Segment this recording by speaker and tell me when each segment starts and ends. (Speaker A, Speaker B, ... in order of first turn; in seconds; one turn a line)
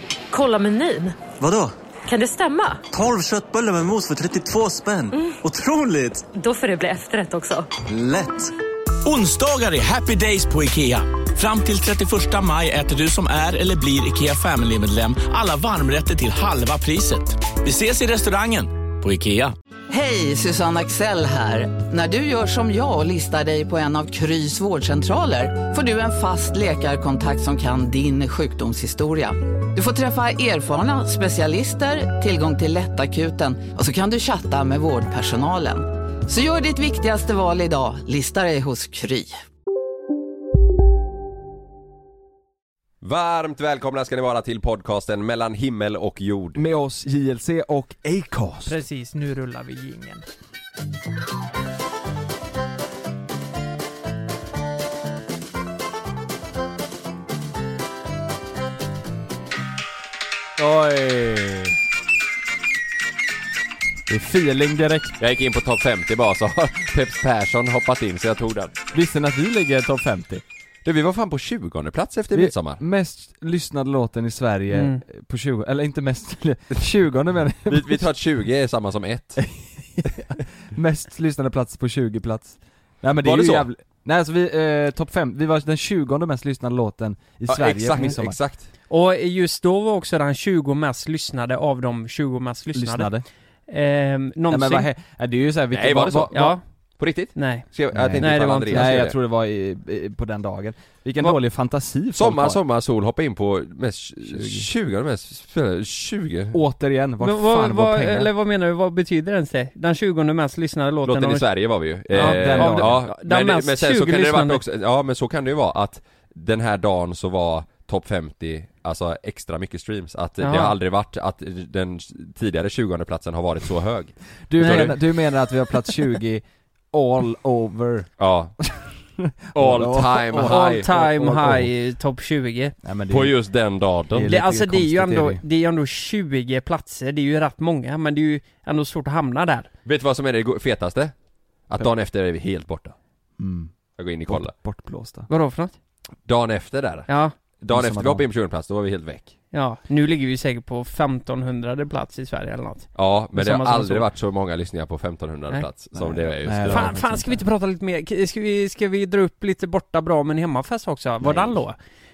Speaker A: 0.3-1.2
Speaker B: 1.4-1.7
Speaker A: 2.1-2.8
Speaker B: 2.9-6.2
Speaker A: 5.1-5.4
Speaker A: 6.3-7.7
Speaker B: 7.9-8.5
Speaker C: 9.0-19.6
Speaker D: 19.9-39.4
Speaker E: 43.0-46.6
Speaker F: 46.5-48.8
Speaker G: 48.7-50.2
Speaker E: 60.6-61.7
Speaker F: 64.1-65.2
Speaker E: 65.2-68.8
Speaker F: 68.9-70.4
Speaker E: 70.8-72.8
Speaker F: 72.3-78.1
Speaker G: 74.7-75.0
Speaker E: 77.7-79.4
Speaker F: 79.4-88.4
Speaker E: 83.2-83.7
Speaker E: 87.5-88.7
Speaker G: 88.9-93.1
Speaker F: 92.7-93.2
Speaker G: 93.7-94.9
Speaker F: 94.5-96.6
Speaker E: 95.7-96.5
Speaker G: 96.3-96.6
Speaker E: 97.0-99.2
Speaker G: 97.3-97.7
Speaker F: 97.9-102.6
Speaker G: 98.2-99.0
Speaker E: 102.1-106.6
Speaker F: 104.3-104.7
Speaker F: 106.5-108.3
Speaker G: 107.2-111.5
Speaker E: 111.0-125.0
Speaker F: 112.1-113.0
Speaker G: 112.1-114.6
Speaker G: 120.4-120.7
Speaker F: 124.5-131.7
Speaker E: 128.2-128.5
Speaker E: 129.5-131.5
Speaker G: 130.4-132.8
Speaker F: 132.8-133.3
Speaker E: 133.1-134.3
Speaker F: 134.1-135.4
Speaker G: 134.3-139.7
Speaker E: 139.8-141.1
Speaker E: 141.7-142.9
Speaker F: 143.4-143.7
Speaker E: 144.0-144.5
Speaker F: 144.3-145.3
Speaker G: 145.3-145.7
Speaker E: 146.2-147.1
Speaker G: 147.1-147.3
Speaker F: 147.6-148.2
Speaker E: 147.7-149.3
Speaker G: 149.5-154.1
Speaker E: 152.9-156.9
Speaker F: 155.9-157.4
Speaker G: 156.6-161.8
Speaker F: 161.2-161.6